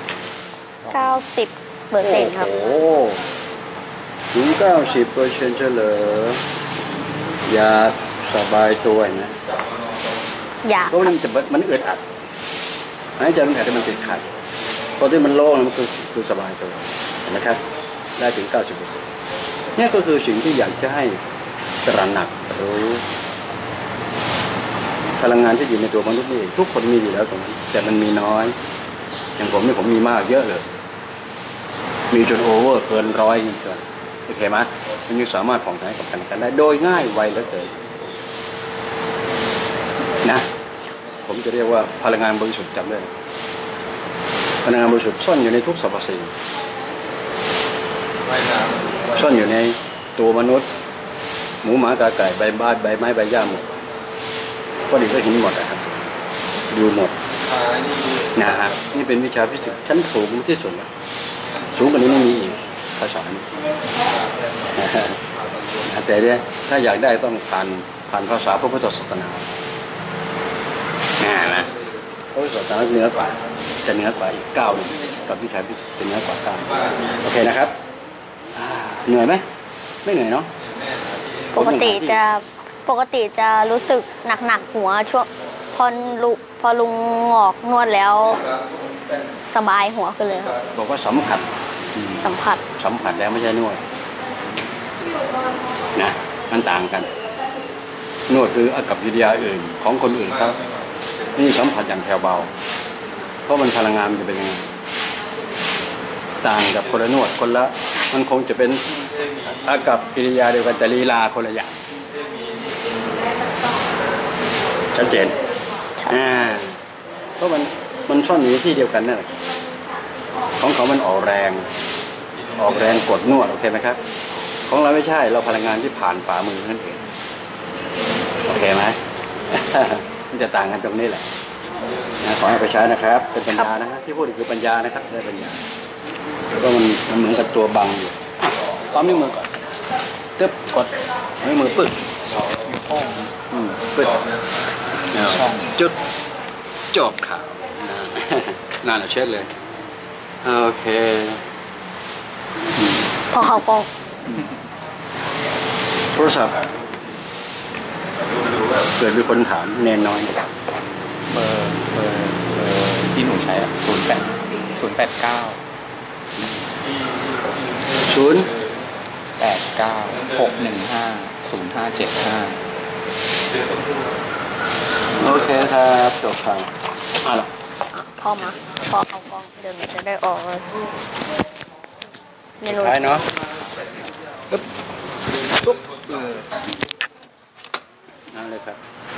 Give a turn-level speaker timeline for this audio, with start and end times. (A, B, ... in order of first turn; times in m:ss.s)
0:00.9-0:02.5 A
0:02.0-0:03.2 B
0:04.3-0:06.4 B
0:07.5-0:09.4 B
0:10.6-0:11.1 A
0:10.9-0:12.0 B
0:13.2-0:14.3 B
0:15.0-0:17.6 B
0:18.2-0:19.1 B
0:19.8-0:21.2 B
0:21.8-0:23.0 B
0:25.2-0:28.6 B
0:29.4-0:30.7 B
0:32.1-0:37.8 B
0:41.2-0:43.1 B
0:44.6-0:46.3 B
0:49.1-0:50.7 B
0:51.6-0:53.7 B
0:54.9-0:56.1 B
0:56.7-0:57.1 B
0:58.3-1:00.9 B
1:01.7-1:03.5 B
1:04.7-1:05.2 B
1:05.8-1:09.5 B
1:11.2-1:11.7 B
1:12.3-1:17.8 B
1:18.6-1:19.4 B
1:20.0-1:20.5 B
1:21.5-1:22.2 B
1:21.5-1:28.5 A
1:29.5-1:30.6 A
1:30.7-1:32.2 B
1:32.2-1:32.6 A
1:32.7-1:33.8 B
1:36.0-1:37.1 B
1:38.3-1:40.6 B
1:41.4-1:42.5 B
1:43.5-1:44.7 B
1:46.4-1:51.8 B
1:54.9-1:55.4 B
1:56.1-1:56.8 B
1:57.4-1:59.4 B
2:00.6-2:01.7 B
2:02.6-2:04.0 B
2:04.7-2:07.0 B
2:08.5-2:09.0 B
2:09.5-2:11.3 B
2:12.2-2:15.6 B
2:16.5-2:19.5 B
2:20.4-2:22.1 B
2:22.5-2:23.3 C
2:23.5-2:24.2 B
2:25.1-2:26.0 B
2:25.2-2:25.7 C
2:26.9-2:29.5 B
2:30.4-2:31.4 B
2:33.3-2:33.9 A
2:36.1-2:36.7 B
2:39.0-2:40.4 B
2:41.3-2:45.6 C
2:48.0-2:48.5 B
2:49.4-2:52.6 C
2:55.2-2:57.5 B
2:57.9-3:00.7 A
3:02.6-3:03.0 A
3:02.6-3:03.3 B
3:05.6-3:06.4 B
3:08.3-3:08.8 B